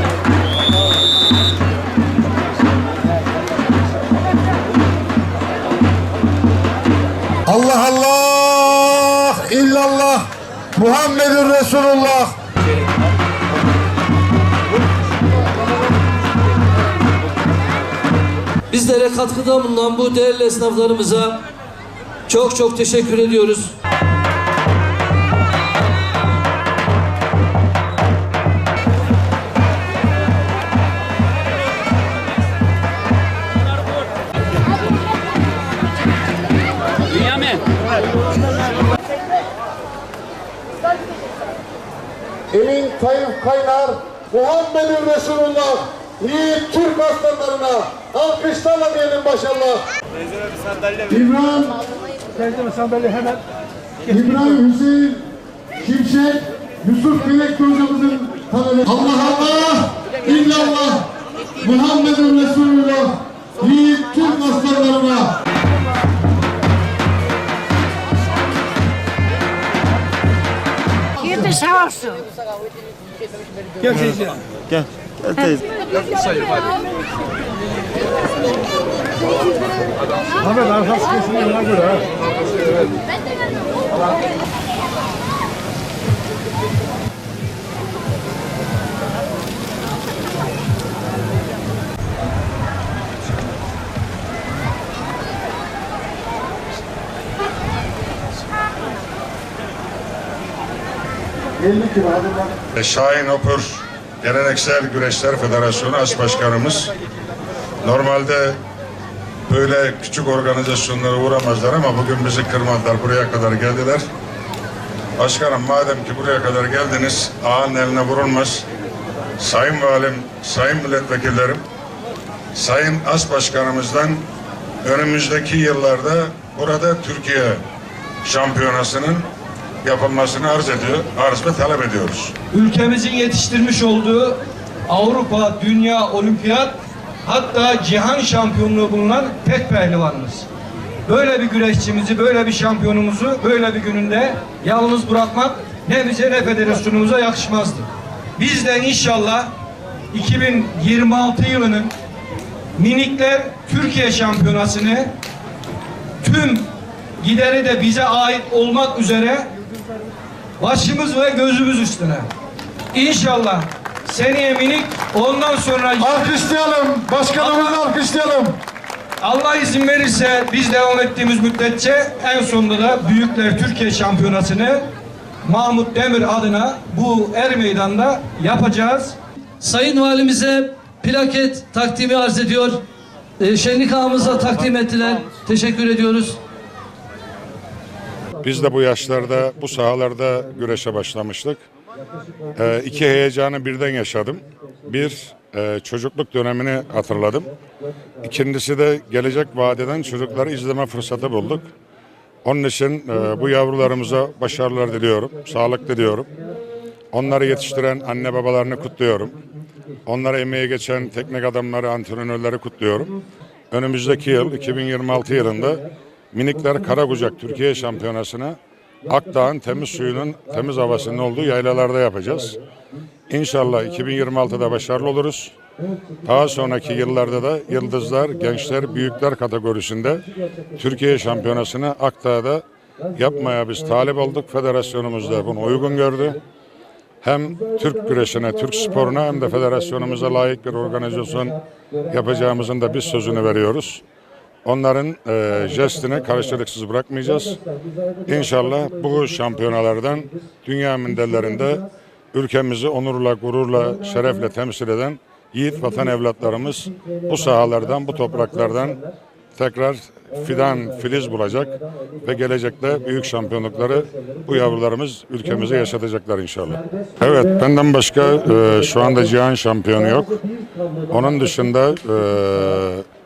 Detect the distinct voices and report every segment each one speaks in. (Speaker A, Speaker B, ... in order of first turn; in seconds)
Speaker A: 7.5-12.3, 42.5-49.9, 51.0-51.8, 52.4-53.4, 54.1-55.3, 55.8-61.1, 61.6-65.4, 101.6-102.5, 166.0-168.6
Speaker B: 18.7-21.4, 22.3-23.7, 71.3-72.1, 179.6-182.8, 183.4-186.4
Speaker C: 102.7-106.9, 107.8-108.6, 109.5-114.0, 115.2-118.7, 119.4-121.6, 122.5-124.3, 124.8-127.6, 128.2-129.2, 129.8-132.3, 188.4-191.6, 192.5-197.5, 198.2-201.7, 202.4-206.3, 207.1-209.4, 210.1-213.2, 213.7-222.6, 223.3-225.5, 226.2-232.6, 233.1-236.4, 237.2-244.0, 244.6-247.6, 248.3-259.0, 259.6-270.4, 271.1-273.1
Speaker D: 132.5-140.5, 141.1-149.5, 150.1-151.9, 152.7-155.1, 156.2-159.5, 160.6-162.3, 162.9-166.2, 167.4-167.9, 169.2-174.9, 175.4-179.2